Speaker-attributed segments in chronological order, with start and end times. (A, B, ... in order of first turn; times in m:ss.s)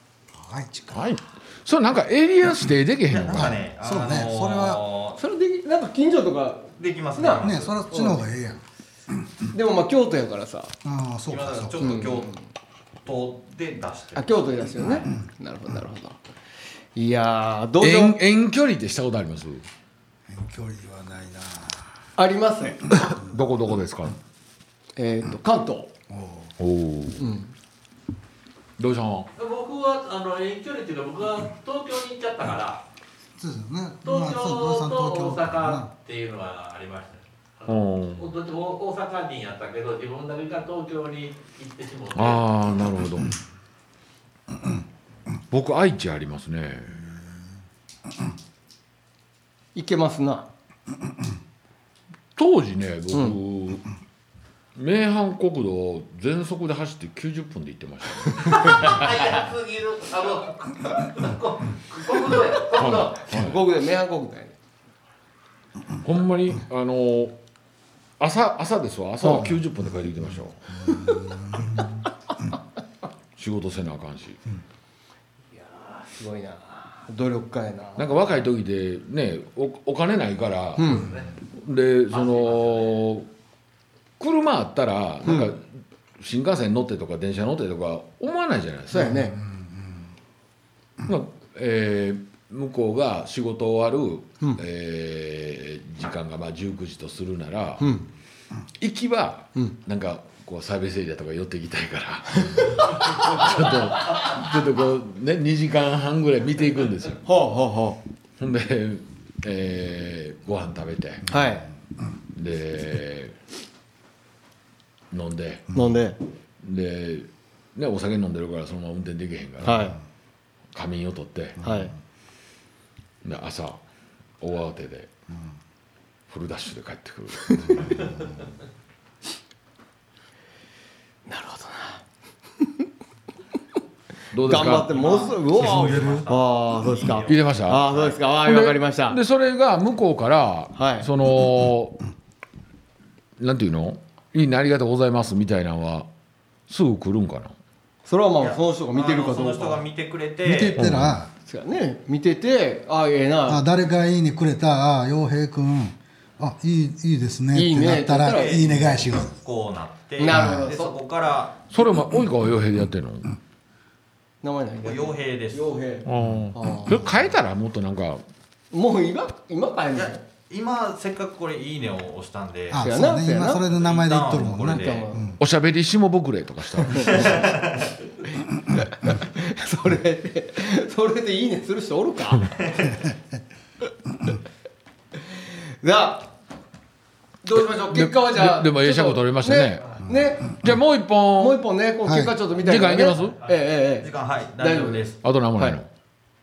0:00.3-0:01.1 A
0:00.9-0:03.6 B
0:03.1-0:05.2 C
0:03.3-0:04.8 A
0:05.2-0:08.2 D
0:06.8-0:07.8 C
0:07.4-0:08.6 A
0:09.5-0:10.7 D
0:10.8-0:12.2 A
0:11.3-0:12.4 C
0:11.8-0:12.3 D
0:13.0-0:14.3 C
0:14.2-0:16.2 D
0:16.9-0:18.2 D
0:17.8-0:19.6 B
0:20.3-0:21.8 A
0:22.2-0:22.9 D
0:23.0-0:24.2 B
0:25.0-0:25.9 D
0:26.1-0:26.5 A
0:26.6-0:27.2 B
0:27.2-0:27.5 D
0:28.8-0:29.3 B
0:29.4-0:32.8 E
0:33.4-0:35.9 A
0:34.0-0:42.4 E
0:37.7-0:38.3 B
0:42.1-0:43.3 B
0:45.5-0:47.0 B
0:49.7-0:50.5 D
0:52.4-0:53.9 B
0:53.1-0:53.4 D
0:54.8-0:59.0 B
0:58.4-1:03.3 E
1:02.7-1:03.6 B
1:03.3-1:04.5 D
1:06.0-1:07.4 B
1:08.2-1:10.6 B
1:09.2-1:09.5 D
1:13.4-1:14.4 B
1:15.5-1:18.1 D
1:18.0-1:23.3 B
1:20.8-1:21.1 D
1:20.9-1:21.3 E
1:22.1-1:23.0 E
1:24.2-1:25.6 B
1:25.2-1:25.5 D
1:26.2-1:29.3 B
1:28.9-1:29.4 D
1:31.0-1:37.9 B
1:37.8-1:38.1 D
1:38.8-1:47.2 B
1:47.2-1:48.0 D
1:48.4-1:51.3 B
1:51.3-1:51.7 D
1:52.3-1:53.3 B
1:55.1-1:55.7 B
1:55.7-1:56.2 D
1:56.6-1:59.9 B
1:59.6-2:00.0 D
2:00.7-2:01.6 B
2:01.6-2:01.9 A
2:01.6-2:01.9 D
2:03.2-2:03.8 B
2:04.4-2:05.1 B
2:06.3-2:07.8 B
2:11.3-2:12.0 D
2:14.3-2:15.0 B
2:14.4-2:19.2 D
2:14.6-2:18.2 C
2:17.3-2:17.8 B
2:18.4-2:22.0 B
2:20.8-2:21.1 D
2:23.4-2:26.1 B
2:26.7-2:27.5 B
2:28.0-2:29.8 D
2:28.4-2:30.8 C
2:30.4-2:31.3 A
2:30.8-2:31.2 B
2:31.4-2:33.6 D
2:33.4-2:39.4 A
2:37.5-2:38.6 D
2:38.2-2:41.6 C
2:40.2-2:41.0 D
2:40.3-2:40.7 A
2:41.7-2:43.3 B
2:44.4-2:47.0 D
2:44.8-2:45.7 C
2:46.0-2:48.2 B
2:48.7-2:50.2 D
2:49.9-2:52.9 C
2:52.7-2:55.4 A
2:52.8-2:53.6 D
2:53.6-2:55.2 C
2:54.6-2:55.2 D
2:55.4-2:57.1 B
2:56.8-2:57.3 D
2:57.0-2:57.9 C
2:58.7-3:02.8 D
3:05.8-3:06.3 D
3:07.4-3:10.6 D
3:07.5-3:09.9 B
3:10.6-3:11.6 B
3:11.4-3:15.0 D
3:12.0-3:12.3 A
3:12.6-3:13.4 B
3:14.0-3:15.2 C
3:15.2-3:15.9 B